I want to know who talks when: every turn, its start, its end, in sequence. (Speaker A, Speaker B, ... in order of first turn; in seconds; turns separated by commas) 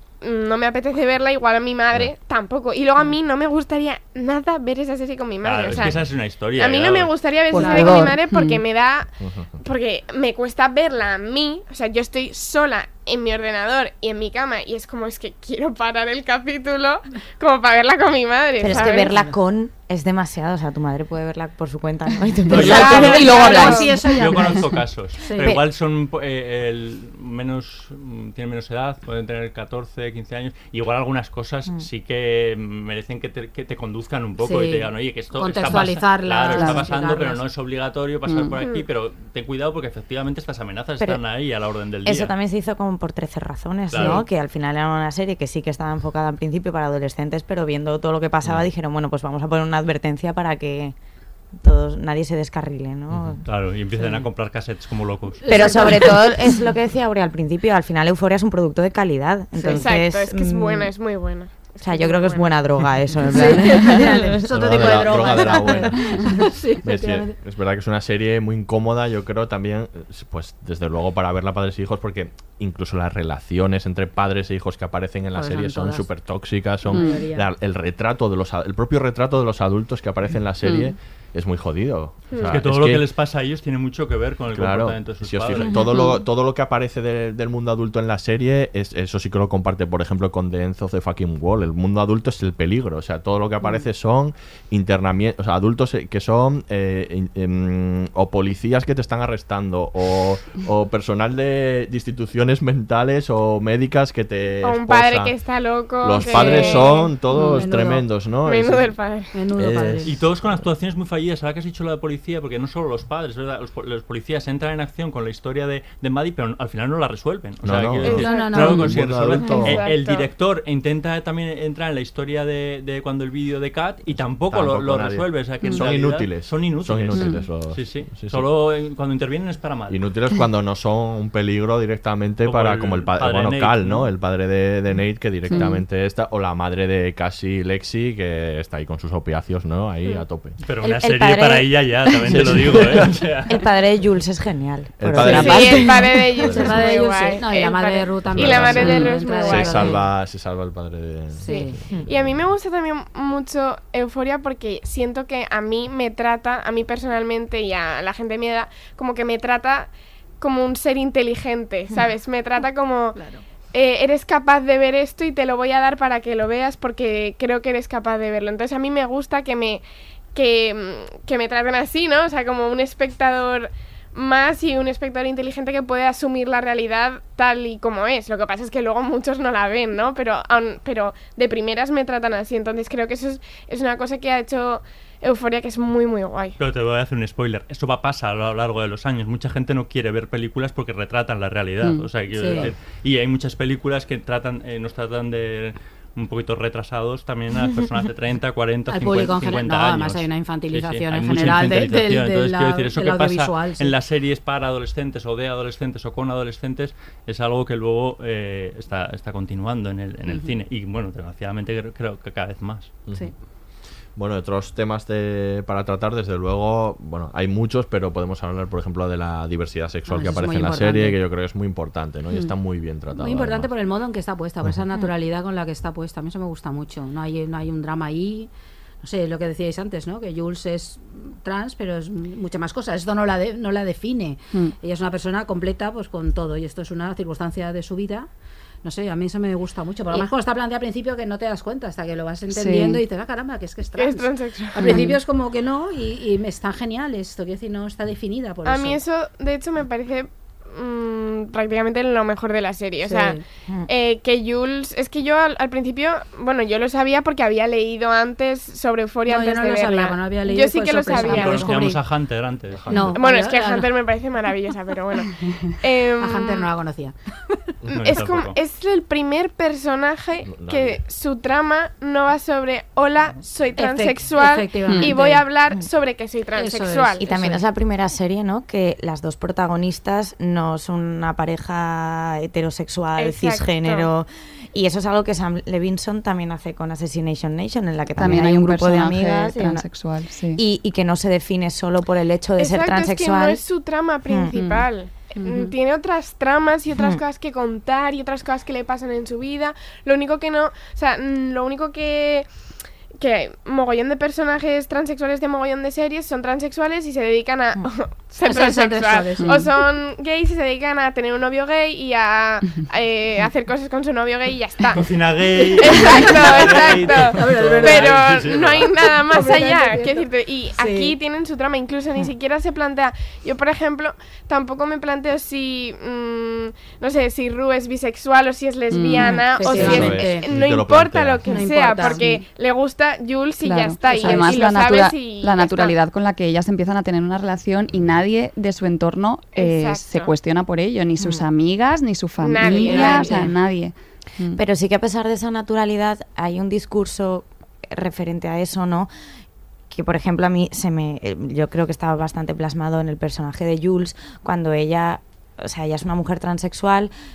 Speaker A: 0.2-19.1, Speaker B: 5.4-7.2, Speaker C: 5.7-6.1, Speaker D: 7.5-8.6, Speaker E: 7.5-8.1, Speaker C: 9.2-9.5, Speaker F: 18.6-24.6, Speaker E: 18.7-19.4, Speaker D: 22.5-24.3, Speaker B: 22.5-42.3, Speaker E: 22.5-25.6, Speaker A: 22.6-24.0, Speaker E: 34.4-37.4, Speaker D: 36.5-36.8, Speaker D: 38.3-38.6, Speaker F: 42.0-50.9, Speaker B: 43.9-44.2, Speaker E: 43.9-44.2, Speaker F: 51.5-53.4, Speaker C: 53.1-53.4, Speaker B: 53.4-55.8, Speaker F: 55.4-60.9, Speaker E: 55.5-56.6, Speaker E: 59.5-60.0, Speaker A: 59.7-62.7, Speaker F: 61.8-65.8, Speaker E: 63.2-67.3, Speaker C: 64.5-83.1, Speaker E: 75.3-76.1, Speaker E: 76.8-77.5, Speaker D: 76.9-77.2, Speaker D: 80.6-80.9, Speaker A: 82.3-82.6, Speaker B: 82.4-85.8, Speaker C: 84.5-105.3, Speaker F: 85.5-86.2, Speaker A: 104.6-107.1, Speaker C: 106.0-108.9, Speaker E: 106.2-108.1, Speaker A: 108.4-109.3, Speaker E: 109.3-110.1, Speaker C: 109.6-110.6, Speaker B: 110.0-130.0, Speaker C: 117.6-119.7, Speaker A: 118.0-118.5, Speaker E: 118.0-119.8, Speaker A: 119.6-120.3, Speaker C: 124.5-128.5, Speaker D: 127.1-127.4, Speaker C: 129.9-140.6, Speaker B: 132.4-134.1, Speaker B: 140.6-143.5, Speaker F: 140.8-141.8, Speaker C: 142.3-143.1, Speaker F: 143.5-146.2, Speaker C: 145.0-146.9, Speaker A: 145.2-150.0, Speaker E: 146.4-150.0, Speaker C: 148.3-152.4, Speaker D: 148.8-149.1, Speaker E: 151.4-151.8, Speaker A: 151.4-163.2, Speaker E: 163.1-163.4, Speaker A: 163.7-186.6, Speaker B: 186.6-212.9, Speaker E: 192.3-192.7, Speaker E: 198.9-203.9, Speaker E: 210.2-210.5, Speaker C: 213.1-213.5, Speaker C: 214.1-223.7, Speaker E: 220.1-221.2, Speaker E: 223.1-228.5, Speaker E: 229.0-238.3, Speaker E: 238.8-249.0, Speaker D: 242.5-243.0, Speaker A: 244.0-245.0, Speaker D: 244.9-245.2, Speaker A: 248.6-261.8, Speaker E: 253.0-253.4, Speaker E: 259.3-262.0, Speaker B: 261.2-262.9, Speaker C: 262.7-263.2, Speaker E: 262.9-263.9, Speaker A: 263.1-266.7, Speaker E: 266.2-267.6, Speaker A: 267.9-277.2, Speaker B: 267.9-268.6, Speaker C: 270.4-271.0, Speaker E: 273.8-275.5, Speaker D: 274.9-275.1, Speaker E: 276.5-277.6, Speaker F: 277.2-289.9, Speaker A: 283.2-284.1, Speaker D: 288.2-290.6, Speaker F: 290.5-293.6, Speaker A: 292.6-315.2, Speaker F: 294.3-294.9, Speaker D: 295.4-295.7, Speaker E: 308.4-309.7, Speaker B: 314.9-318.9, Speaker E: 315.6-318.3, Speaker A: 315.8-335.9, Speaker E: 318.9-321.1, Speaker D: 328.9-329.5, Speaker E: 329.2-330.5, Speaker C: 329.7-331.6, Speaker E: 331.5-332.4, Speaker D: 333.6-344.6, Speaker E: 334.1-334.5, Speaker A: 339.5-340.3, Speaker F: 341.2-341.5, Speaker A: 342.4-343.5, Speaker E: 342.6-343.5, Speaker F: 342.8-343.5, Speaker F: 344.5-349.1, Speaker F: 349.9-357.1